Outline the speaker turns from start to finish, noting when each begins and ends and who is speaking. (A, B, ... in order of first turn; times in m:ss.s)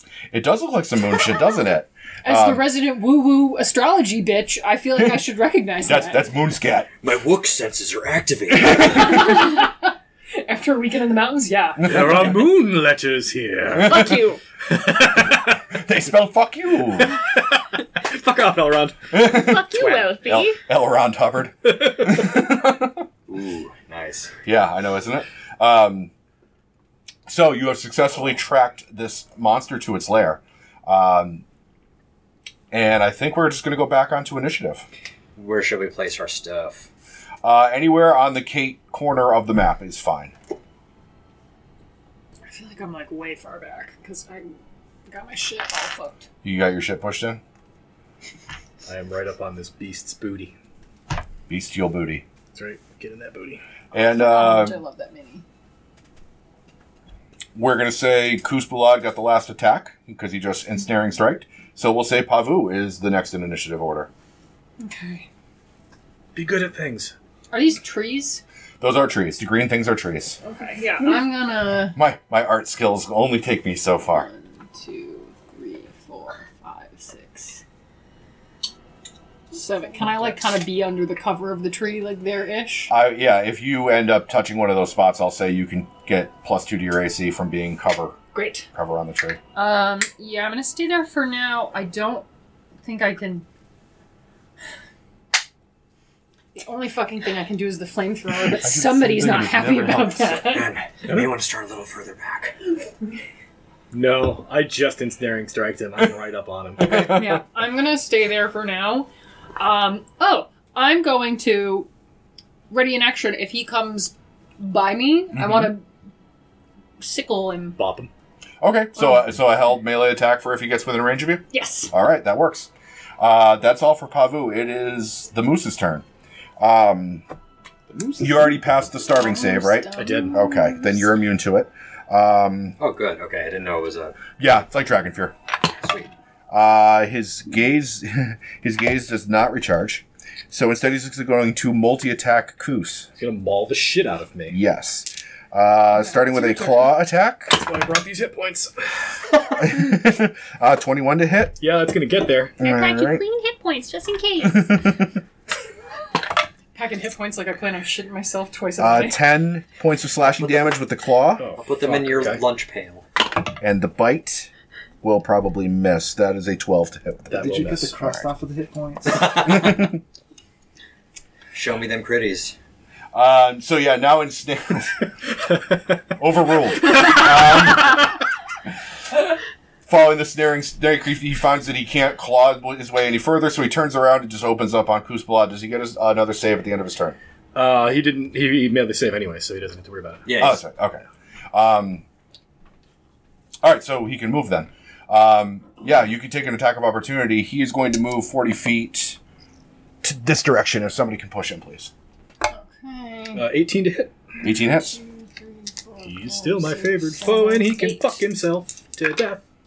0:00.3-0:02.7 A
0:02.2-0:06.2 B
0:05.0-0:05.2 A
0:05.8-0:06.9 A
0:07.0-0:09.3 C
0:08.7-0:09.0 A
0:08.9-0:11.9 B
0:11.8-0:15.6 D
0:11.8-0:12.4 A
0:13.8-0:14.1 A
0:13.8-0:14.4 E
0:15.7-0:17.1 A
0:17.0-0:19.1 D
0:19.1-0:23.0 A
0:19.2-0:20.6 E
0:21.7-0:22.3 D
0:23.3-0:24.3 C
0:24.4-0:26.1 A
0:27.3-0:31.4 A
0:32.7-0:34.9 A
0:35.4-0:36.9 C
0:37.4-0:40.3 A
0:42.5-0:44.5 B
0:45.1-0:46.3 B
0:46.4-0:47.4 A
0:48.9-0:50.5 D
0:51.5-0:52.2 A
0:52.6-0:53.6 D
0:53.9-0:54.8 A
0:54.0-0:55.4 B
0:57.6-1:04.1 A
1:04.8-1:05.3 B
1:06.4-1:07.1 D
1:07.5-1:08.4 B
1:08.8-1:10.4 A
1:10.4-1:12.0 B
1:10.6-1:11.3 E
1:11.9-1:14.3 A
1:14.1-1:17.6 B
1:19.5-1:22.9 B
1:22.9-1:28.2 A
1:28.3-1:28.7 B
1:28.7-1:29.4 A
1:29.6-1:32.3 B
1:32.8-1:33.5 B
1:36.6-1:40.7 B
1:38.6-1:40.5 A
1:40.5-1:42.6 C
1:43.9-1:47.1 D
1:46.9-1:51.9 B
1:46.9-1:47.4 A
1:52.7-1:55.8 B
1:57.0-1:57.8 B
1:57.8-1:58.1 D
1:58.6-2:06.0 A
2:01.5-2:01.9 E
2:06.6-2:07.2 A
2:07.9-2:08.6 F
2:08.2-2:12.8 A
2:09.1-2:10.6 B
2:10.0-2:10.4 D
2:12.8-2:14.3 C
2:14.4-2:15.4 A
2:15.8-2:16.1 C
2:16.5-2:23.1 A
2:23.2-2:24.6 D
2:24.5-2:27.6 A
2:26.0-2:26.9 B
2:27.5-2:29.1 D
2:29.6-2:31.6 A
2:31.6-2:32.6 D
2:32.6-2:34.8 E
2:32.6-2:33.2 A
2:34.4-2:35.1 A
2:36.7-2:39.2 B
2:38.8-2:41.5 A
2:40.2-2:40.7 C
2:41.4-2:42.4 D
2:41.6-2:43.1 C
2:43.6-2:44.5 A
2:45.0-2:47.4 A
2:47.3-2:47.9 D
2:47.3-2:49.4 F
2:48.0-2:48.3 A
2:49.1-2:49.9 C
2:49.3-2:50.0 A
2:51.5-2:52.6 C
2:53.1-2:55.0 A
2:55.4-2:56.0 D
2:56.2-2:58.1 A
2:59.9-3:07.2 A
3:07.5-3:10.2 D
3:10.3-3:10.6 C
3:10.4-3:12.0 A
3:13.6-3:19.2 A
3:20.0-3:21.9 A
3:22.5-3:23.5 B
3:23.3-3:24.1 D
3:24.4-3:25.0 A
3:24.4-3:27.9 B
3:26.0-3:29.4 D